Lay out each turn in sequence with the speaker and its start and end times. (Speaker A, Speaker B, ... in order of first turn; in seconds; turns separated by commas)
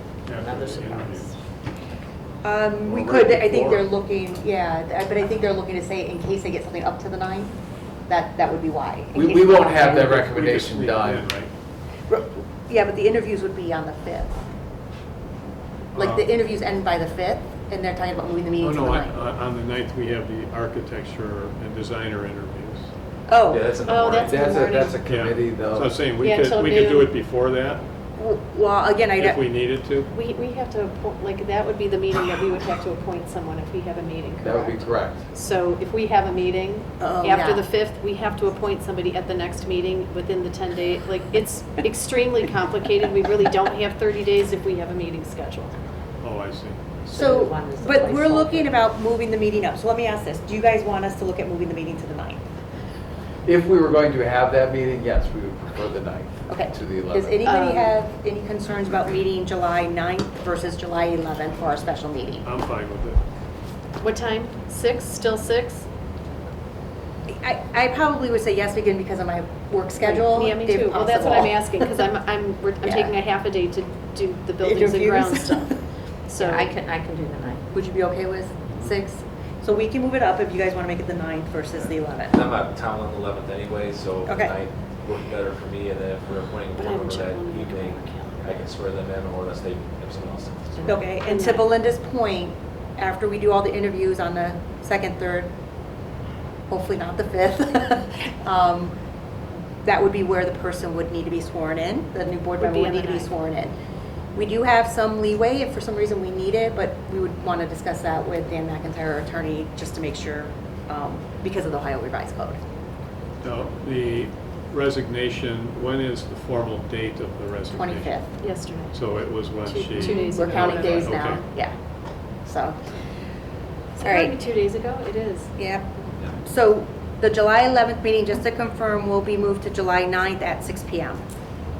Speaker A: 0.2-1.4, Speaker B: 0.3-1.4, Speaker C: 2.4-7.5, Speaker D: 2.9-3.9, Speaker A: 3.0-3.5, Speaker C: 8.1-10.0, Speaker D: 9.1-11.3, Speaker A: 9.7-11.5, Speaker C: 12.1-14.3, Speaker A: 15.9-16.3, Speaker C: 15.9-19.2, Speaker A: 18.6-22.9, Speaker C: 23.3-23.6, Speaker E: 23.5-24.5, Speaker F: 23.8-25.0, Speaker D: 24.1-25.9, Speaker A: 25.0-27.8, Speaker F: 26.2-27.1, Speaker C: 28.1-29.4, Speaker A: 29.1-30.1, Speaker F: 30.1-45.7, Speaker D: 34.4-35.2, Speaker C: 37.0-37.6, Speaker A: 46.2-46.8, Speaker B: 47.0-48.8, Speaker C: 47.1-52.4, Speaker D: 53.5-57.4, Speaker C: 56.5-62.4, Speaker F: 57.4-57.9, Speaker A: 62.4-63.2, Speaker F: 64.0-65.8, Speaker C: 67.4-72.0, Speaker F: 70.0-75.7, Speaker C: 72.8-73.1, Speaker C: 74.6-75.8, Speaker F: 76.3-76.7, Speaker B: 76.4-77.6, Speaker C: 77.7-82.3, Speaker E: 82.3-90.9, Speaker C: 84.2-84.5, Speaker F: 86.7-88.6, Speaker F: 90.8-91.7, Speaker C: 90.8-95.5, Speaker C: 96.7-98.9, Speaker C: 99.8-103.7, Speaker F: 102.6-103.3, Speaker C: 104.3-112.6, Speaker A: 113.4-118.3, Speaker C: 117.7-118.3, Speaker F: 118.4-121.4, Speaker A: 118.8-121.4, Speaker C: 120.0-121.7, Speaker C: 122.4-122.8, Speaker C: 124.0-124.4, Speaker F: 124.0-125.5, Speaker C: 125.5-131.2